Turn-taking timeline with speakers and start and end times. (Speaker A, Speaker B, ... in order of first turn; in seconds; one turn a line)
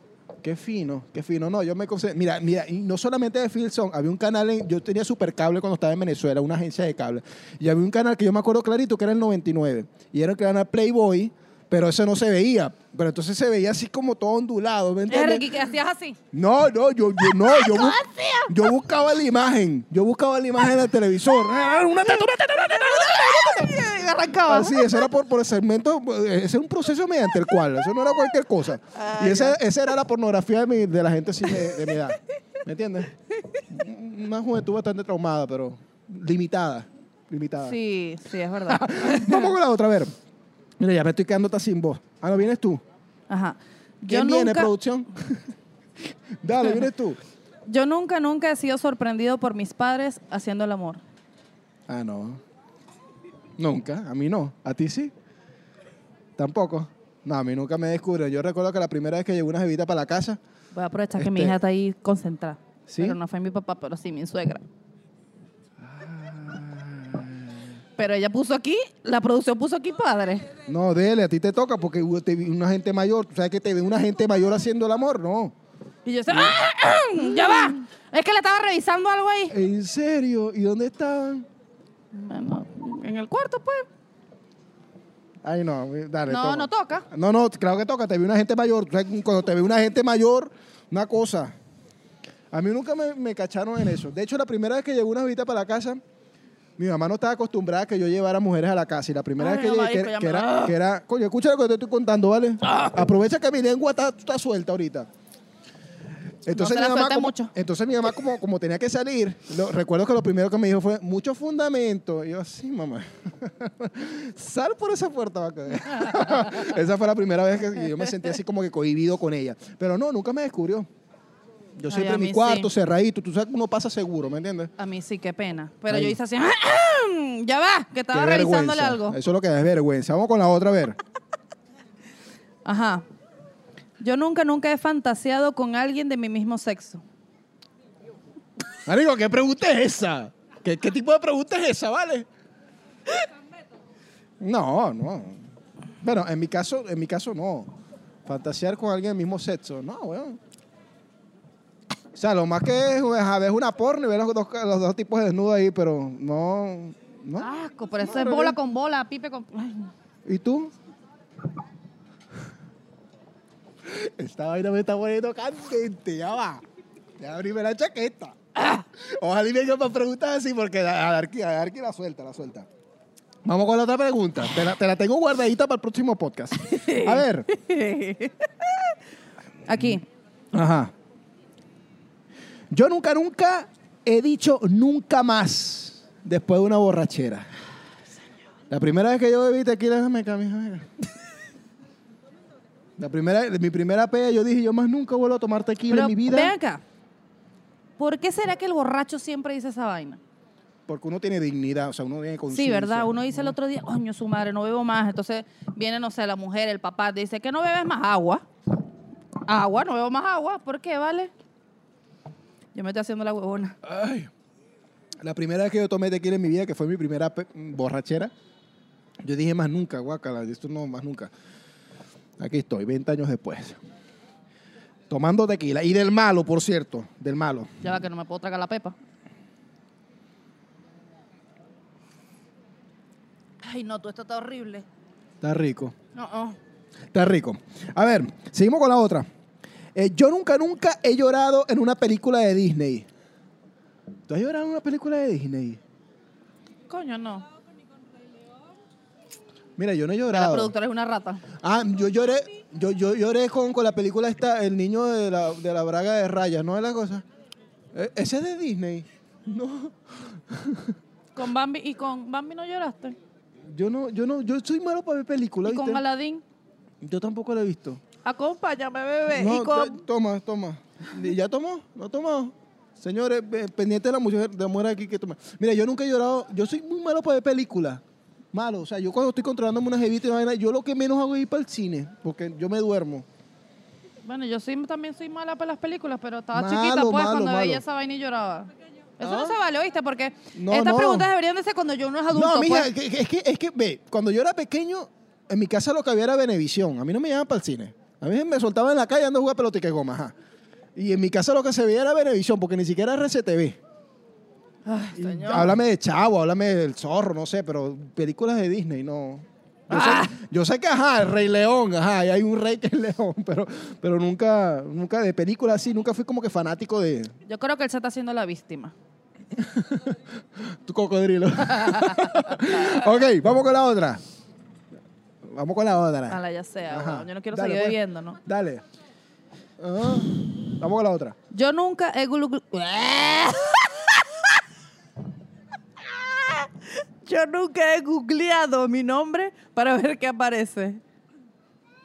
Speaker A: 0.4-15.5
Speaker B: 15.1-16.2
Speaker A: 16.3-23.8
Speaker B: 17.2-18.8
Speaker B: 22.3-25.1
Speaker A: 24.4-33.1
Speaker B: 28.9-29.6
Speaker B: 31.5-32.0
Speaker A: 33.7-37.8
Speaker B: 37.6-39.5
Speaker A: 38.7-40.1
Speaker A: 40.8-42.8
Speaker B: 43.3-44.7
Speaker A: 44.1-45.4
Speaker A: 46.4-47.2
Speaker B: 47.7-51.0
Speaker A: 51.9-52.4
Speaker A: 53.6-55.1
Speaker A: 56.4-60.4
Speaker B: 60.7-64.7
Speaker A: 61.2-61.6
Speaker A: 62.9-63.2
Speaker A: 65.8-67.6
Speaker B: 68.0-70.5
Speaker A: 70.7-75.5
Speaker B: 76.0-79.5
Speaker A: 79.5-81.5
Speaker B: 82.1-83.9
Speaker A: 85.4-91.5
Speaker B: 86.3-87.1
Speaker A: 92.5-96.0
Speaker A: 96.8-105.1
Speaker B: 99.4-100.8
Speaker B: 102.7-103.0
Speaker A: 106.5-120.9
Speaker B: 106.5-107.5
Speaker B: 115.9-116.7
Speaker A: 121.8-124.7
Speaker B: 121.9-122.7
Speaker B: 124.8-129.2
Speaker A: 125.9-126.2
Speaker A: 128.1-131.0
Speaker B: 132.7-133.1
Speaker B: 134.0-137.0
Speaker A: 138.9-142.3
Speaker A: 144.4-145.4
Speaker A: 146.0-147.7
Speaker A: 148.2-150.4
Speaker A: 152.2-157.5
Speaker B: 157.4-159.9
Speaker A: 158.0-158.6
Speaker A: 160.2-160.7
Speaker A: 163.9-166.6
Speaker A: 167.2-168.4
Speaker A: 169.0-172.7
Speaker A: 173.4-177.5
Speaker B: 176.6-179.0
Speaker B: 179.7-180.0
Speaker A: 180.5-180.9
Speaker A: 182.7-187.5
Speaker A: 188.7-190.9
Speaker A: 193.0-196.5
Speaker B: 195.9-196.8
Speaker B: 198.0-200.2
Speaker A: 200.9-203.6
Speaker B: 202.5-208.4
Speaker B: 209.5-211.3
Speaker B: 212.7-213.8
Speaker A: 213.8-214.3
Speaker A: 215.2-218.3
Speaker A: 219.2-221.3
Speaker A: 222.4-223.8
Speaker A: 225.1-227.7
Speaker B: 227.8-228.9
Speaker B: 233.6-234.9
Speaker A: 235.4-235.9
Speaker B: 236.2-236.6
Speaker A: 237.1-239.3
Speaker A: 239.9-243.1
Speaker A: 244.3-245.8
Speaker B: 246.9-247.5
Speaker A: 249.8-250.7
Speaker B: 250.3-251.4
Speaker A: 251.6-257.2
Speaker A: 257.9-260.9
Speaker B: 261.4-263.2
Speaker A: 263.7-266.0
Speaker B: 265.6-266.4
Speaker A: 267.0-268.0
Speaker B: 268.2-270.0
Speaker A: 269.3-278.0
Speaker A: 278.5-283.3
Speaker B: 284.2-292.9
Speaker A: 286.5-287.8
Speaker A: 289.2-289.6
Speaker A: 290.5-291.3
Speaker A: 292.3-300.3
Speaker A: 301.0-303.8
Speaker B: 304.9-305.7
Speaker A: 305.1-317.3
Speaker B: 309.9-310.3
Speaker B: 317.4-318.9
Speaker A: 319.6-324.2
Speaker B: 321.7-323.0
Speaker A: 325.4-328.8
Speaker B: 326.3-328.4
Speaker A: 329.8-331.4
Speaker B: 331.5-334.6
Speaker B: 336.0-341.0